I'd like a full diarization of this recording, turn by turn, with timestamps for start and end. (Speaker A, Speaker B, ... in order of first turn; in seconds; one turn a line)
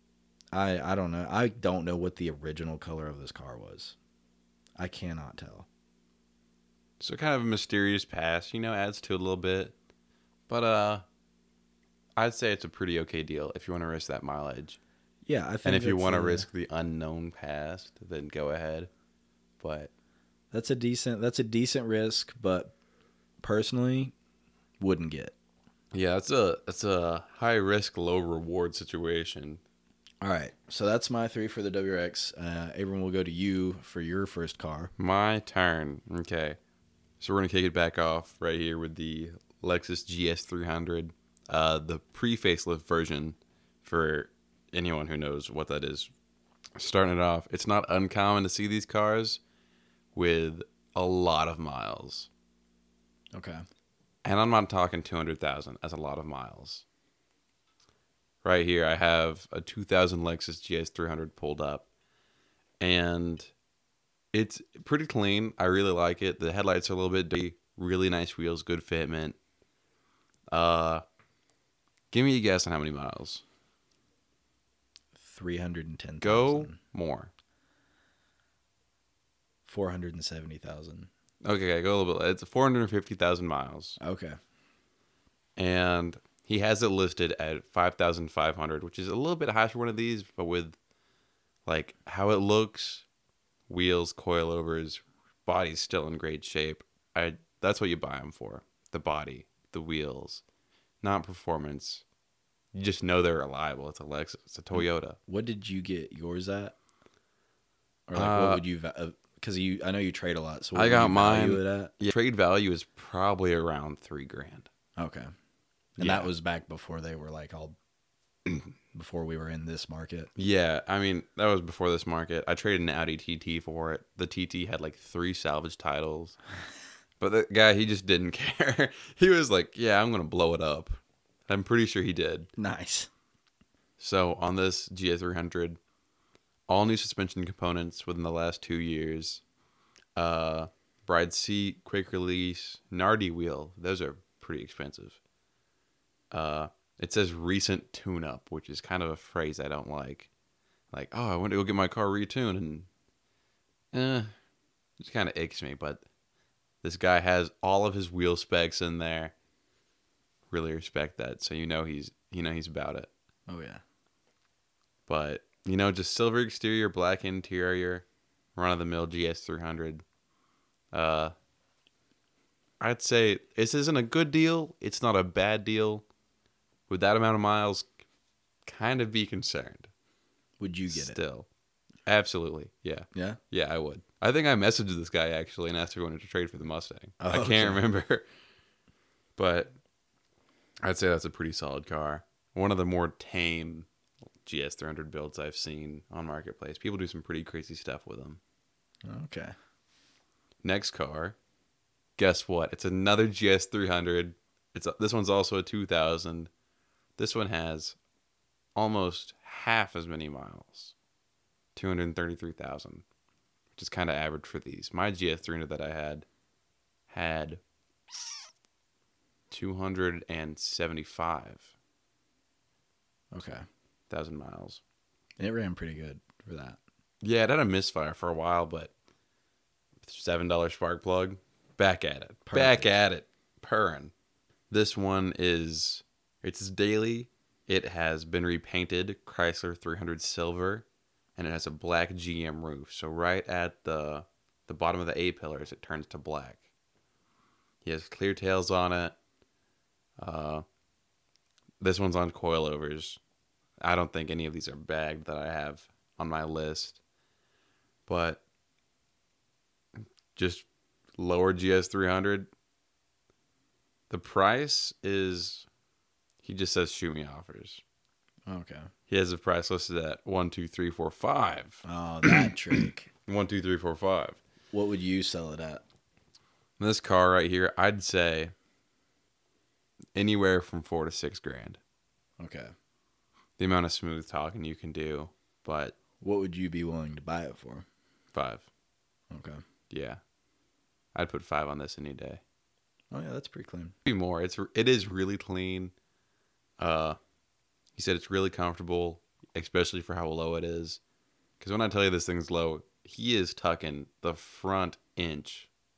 Speaker A: 0.5-4.0
Speaker A: 4.8-5.7
Speaker B: 7.0-9.7
Speaker B: 10.5-11.1
Speaker B: 12.2-14.8
Speaker A: 15.2-16.5
Speaker B: 15.6-18.9
Speaker B: 19.6-19.9
Speaker A: 20.5-22.7
Speaker A: 23.4-24.1
Speaker A: 24.8-25.4
Speaker B: 25.9-29.6
Speaker A: 30.2-34.9
Speaker B: 35.0-36.6
Speaker B: 37.2-46.1
Speaker B: 46.8-49.4
Speaker B: 50.1-52.3
Speaker A: 53.3-53.6
Speaker B: 54.2-56.8
Speaker B: 58.4-61.9
Speaker B: 62.8-63.5
Speaker B: 64.3-69.4
Speaker B: 70.5-71.0
Speaker B: 72.1-73.4
Speaker A: 75.2-76.8
Speaker B: 76.2-77.3
Speaker A: 79.7-81.1
Speaker B: 81.4-84.0
Speaker A: 84.0-84.4
Speaker B: 85.6-90.8
Speaker B: 91.7-93.0
Speaker B: 93.7-100.4
Speaker B: 101.0-102.0
Speaker B: 102.7-105.2
Speaker A: 104.8-106.8
Speaker A: 108.1-111.9
Speaker B: 108.1-108.6
Speaker B: 110.8-114.7
Speaker A: 115.0-115.3
Speaker A: 116.0-117.8
Speaker B: 116.0-116.3
Speaker A: 118.9-120.3
Speaker B: 120.4-126.4
Speaker B: 127.2-132.5
Speaker A: 132.6-133.1
Speaker B: 134.0-135.8
Speaker B: 136.7-139.4
Speaker B: 140.2-145.2
Speaker B: 146.3-150.3
Speaker B: 150.9-152.9
Speaker B: 153.9-154.3
Speaker B: 155.0-156.0
Speaker B: 156.8-159.3
Speaker B: 160.5-163.1
Speaker A: 163.5-163.8
Speaker B: 165.1-170.0
Speaker B: 170.9-171.3
Speaker B: 172.8-176.0
Speaker B: 176.9-177.9
Speaker B: 178.7-179.9
Speaker A: 180.6-181.2
Speaker B: 180.9-181.5
Speaker B: 182.1-188.2
Speaker A: 183.1-183.4
Speaker A: 187.2-187.8
Speaker B: 189.4-189.8
Speaker B: 190.8-193.9
Speaker B: 194.4-198.4
Speaker A: 199.0-199.5
Speaker B: 200.6-201.4
Speaker B: 202.2-206.5
Speaker B: 207.2-208.0
Speaker B: 208.8-210.9
Speaker B: 211.8-213.0
Speaker B: 213.8-216.2
Speaker B: 217.1-217.6
Speaker B: 219.5-221.7
Speaker A: 223.3-223.6
Speaker B: 224.1-224.8
Speaker A: 225.4-226.8
Speaker B: 227.2-228.9
Speaker B: 230.0-234.1
Speaker A: 232.5-232.9
Speaker B: 234.7-240.9
Speaker B: 241.4-246.6
Speaker B: 247.8-249.2
Speaker B: 250.2-250.7
Speaker B: 251.8-253.2
Speaker B: 253.8-257.0
Speaker B: 258.1-258.4
Speaker B: 260.4-260.7
Speaker B: 261.2-262.5
Speaker B: 264.1-265.7
Speaker B: 266.4-267.8
Speaker A: 268.5-268.9
Speaker B: 269.1-272.5
Speaker A: 271.8-273.1
Speaker B: 273.3-274.4
Speaker A: 274.7-275.8
Speaker B: 276.8-278.5
Speaker B: 280.2-281.8
Speaker A: 282.4-282.7
Speaker B: 283.6-286.0
Speaker A: 286.2-287.9
Speaker B: 288.3-288.7
Speaker A: 289.3-289.6
Speaker B: 289.9-290.2
Speaker B: 291.1-292.4
Speaker A: 293.1-293.9
Speaker B: 294.0-295.9
Speaker B: 296.8-297.2
Speaker B: 297.9-301.0
Speaker B: 301.6-305.7